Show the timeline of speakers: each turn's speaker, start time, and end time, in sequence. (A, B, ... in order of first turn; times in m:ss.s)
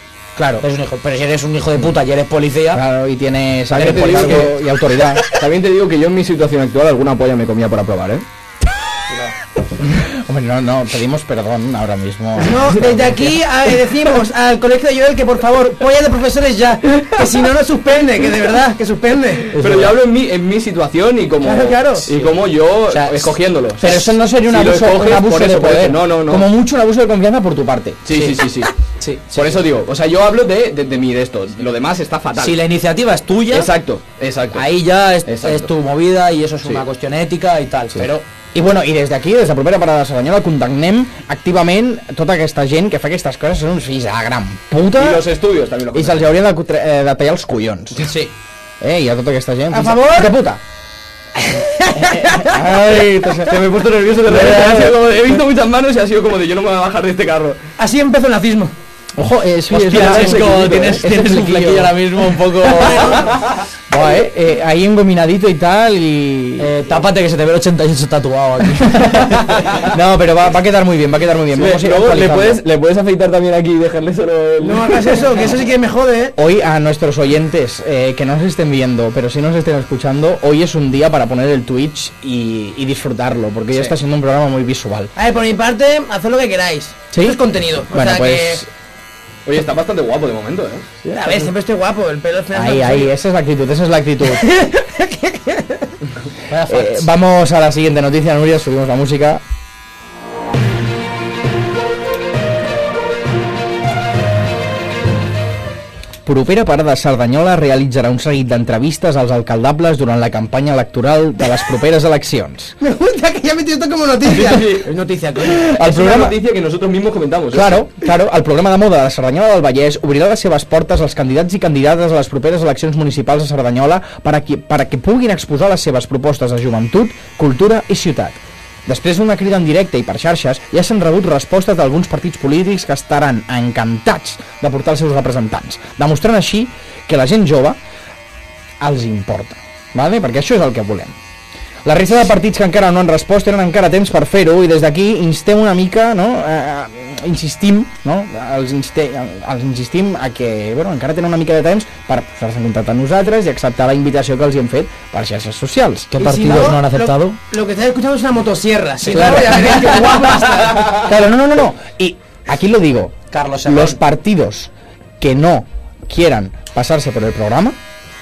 0:00.4-0:00.6 A
0:00.6-0:02.8 B
0:02.7-0:05.2 A
0:03.7-0:04.6 B
0:03.7-0:04.5 C
0:05.3-0:08.2 C
0:09.9-0:13.3 A
0:12.4-0:19.5 D
0:19.6-0:26.5 C
0:19.6-0:19.9 B
0:21.4-0:22.1 D
0:22.9-0:23.9 B
0:23.8-0:28.0 A
0:28.0-0:28.7 C
0:28.1-0:28.4 B
0:29.0-0:29.6 B
0:29.3-0:32.6 C
0:32.4-0:33.7 B
0:33.5-0:35.7 C
0:34.5-0:38.2 B
0:38.5-0:45.2 A
0:45.0-0:46.3 C
0:45.9-0:48.0 A
0:48.0-0:48.3 B
0:48.8-0:50.6 A
0:49.7-0:50.3 D
0:51.4-0:52.6 D
0:52.2-0:53.6 A
0:53.4-0:57.6 C
0:54.3-0:55.0 A
0:57.8-0:58.7 D
0:59.2-1:02.0 A
0:59.7-1:03.3 B
0:59.8-1:01.0 C
1:02.8-1:03.3 D
1:03.9-1:06.7 A
1:06.6-1:09.6 B
1:09.8-1:12.6 A
1:11.5-1:15.2 C
1:14.6-1:16.3 D
1:16.4-1:25.1 A
1:25.2-1:28.6 D
1:27.1-1:28.7 A
1:29.4-1:30.9 C
1:31.0-1:31.5 A
1:31.1-1:33.1 D
1:32.5-1:34.5 A
1:34.3-1:35.9 D
1:36.5-1:37.0 B
1:36.6-1:39.4 A
1:46.2-1:52.8 A
1:52.8-1:55.8 D
1:54.2-1:54.9 C
1:55.4-1:57.8 C
1:55.7-1:56.4 A
1:57.5-2:17.8 A
2:18.8-2:21.2 A
2:21.8-2:36.2 A
2:36.1-2:37.4 B
2:36.2-2:41.0 D
2:39.0-2:39.9 B
2:39.1-2:39.7 A
2:40.9-2:47.8 A
2:43.3-2:44.0 B